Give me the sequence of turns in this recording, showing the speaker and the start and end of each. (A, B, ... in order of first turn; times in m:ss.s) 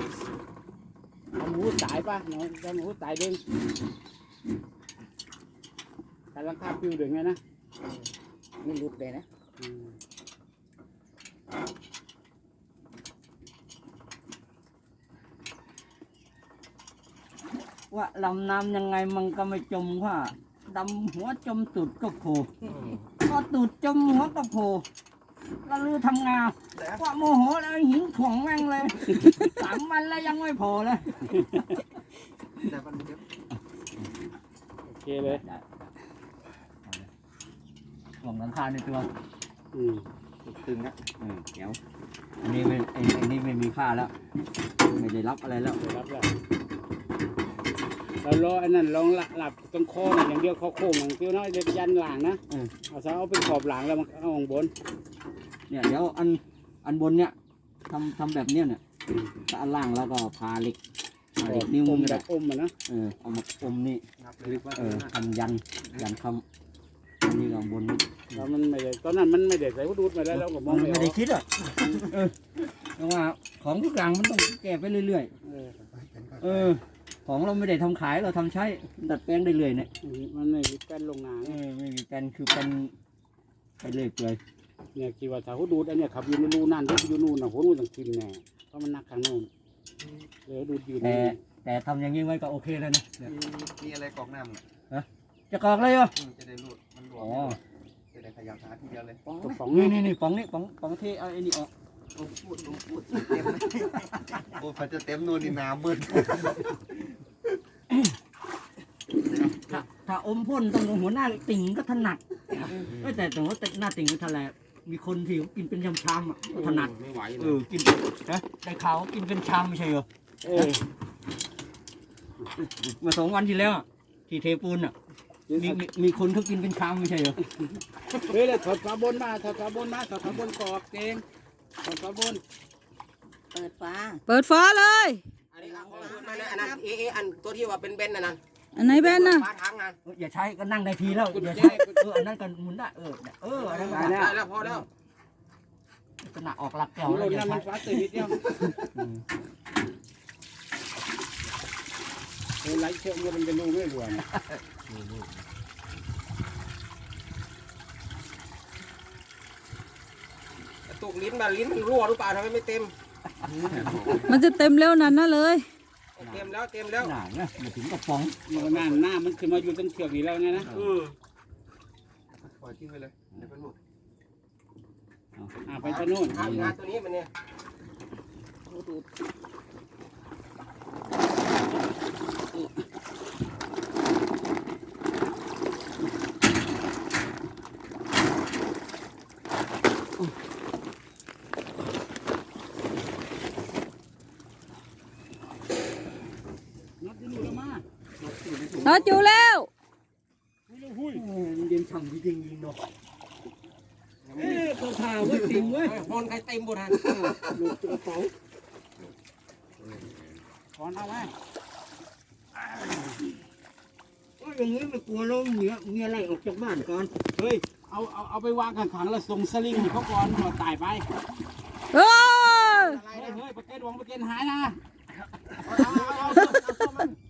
0:01.3-0:03.4 A
0:06.3-0:07.4 A
0:08.6-0:09.2 B
0:09.6-0:09.9 A
0:17.9-0:22.5 C
0:23.2-0:24.8 C
0:25.6-0:31.3 C
0:26.7-0:27.0 D
0:31.3-0:31.6 A
0:32.6-0:33.2 D
0:33.5-0:34.1 C
0:34.9-0:35.4 A
0:35.2-0:35.9 C
0:36.8-0:37.1 C
0:38.2-0:39.1 C
0:39.7-0:40.0 A
0:40.5-0:40.9 D
0:41.2-0:41.8 C
0:42.4-0:44.1 C
0:44.8-0:45.8 C
0:45.8-0:46.3 A
0:48.2-0:54.7 A
0:55.7-0:57.3 C
0:57.9-0:58.8 C
0:59.5-1:00.8 C
1:01.4-1:02.2 C
1:01.4-1:02.7 A
1:02.9-1:04.0 C
1:04.2-1:05.0 D
1:04.4-1:05.1 E
1:04.6-1:06.4 C
1:07.2-1:08.5 C
1:08.3-1:11.2 A
1:10.3-1:11.4 C
1:11.8-1:12.1 D
1:12.1-1:15.3 C
1:15.4-1:15.7 A
1:15.8-1:16.8 D
1:16.4-1:19.9 C
1:20.0-1:21.6 A
1:21.4-1:22.9 C
1:23.8-1:24.4 C
1:24.9-1:29.5 A
1:30.4-1:31.4 A
1:31.0-1:33.3 C
1:33.2-1:34.6 D
1:34.9-1:36.1 C
1:36.1-1:37.6 D
1:37.1-1:37.6 C
1:38.1-1:39.2 D
1:39.3-1:41.7 C
1:39.4-1:40.0 A
1:42.1-1:46.8 D
1:47.9-1:48.2 C
1:49.2-1:49.8 D
1:49.6-2:00.7 C
1:56.5-1:57.6 E
2:00.4-2:00.8 A
2:02.6-2:04.9 C
2:05.5-2:05.8 A
2:05.5-2:07.4 C
2:08.3-2:11.2 A
2:11.8-2:12.4 A
2:13.5-2:14.1 B
2:14.3-2:15.2 F
2:15.5-2:20.0 E
2:15.8-2:16.8 B
2:18.7-2:19.5 F
2:20.0-2:24.8 C
2:21.0-2:22.0 E
2:21.5-2:21.8 A
2:23.5-2:24.8 E
2:23.9-2:24.3 A
2:26.2-2:29.2 C
2:27.0-2:28.4 A
2:32.6-2:34.2 A
2:40.9-2:42.9 E
2:43.4-2:44.4 D
2:43.8-2:44.1 E
2:44.2-2:45.7 F
2:46.2-2:47.1 E
2:46.2-2:48.4 C
2:48.5-2:50.7 A
2:48.5-2:49.0 E
2:50.5-2:51.0 C
2:50.6-2:51.1 E
2:52.3-2:53.8 D
2:55.4-2:56.8 C
2:55.6-2:56.6 A
2:55.8-2:57.3 E
2:58.7-2:59.0 C
3:17.0-3:17.8 A
3:18.2-3:19.1 D
3:18.3-3:19.1 C
3:18.8-3:19.7 F
3:20.7-3:21.2 A
3:21.0-3:22.8 C
3:24.3-3:24.6 E
3:24.3-3:26.0 C
3:25.3-3:27.1 E
3:26.9-3:28.3 C
3:29.8-3:30.2 E
3:30.8-3:31.3 A
3:34.4-3:37.1 C
3:37.4-3:41.1 A
3:41.9-3:43.0 F
3:42.4-3:43.4 E
3:43.1-3:44.8 A
3:45.6-3:47.1 E
3:45.8-3:46.5 A
3:46.0-3:46.3 D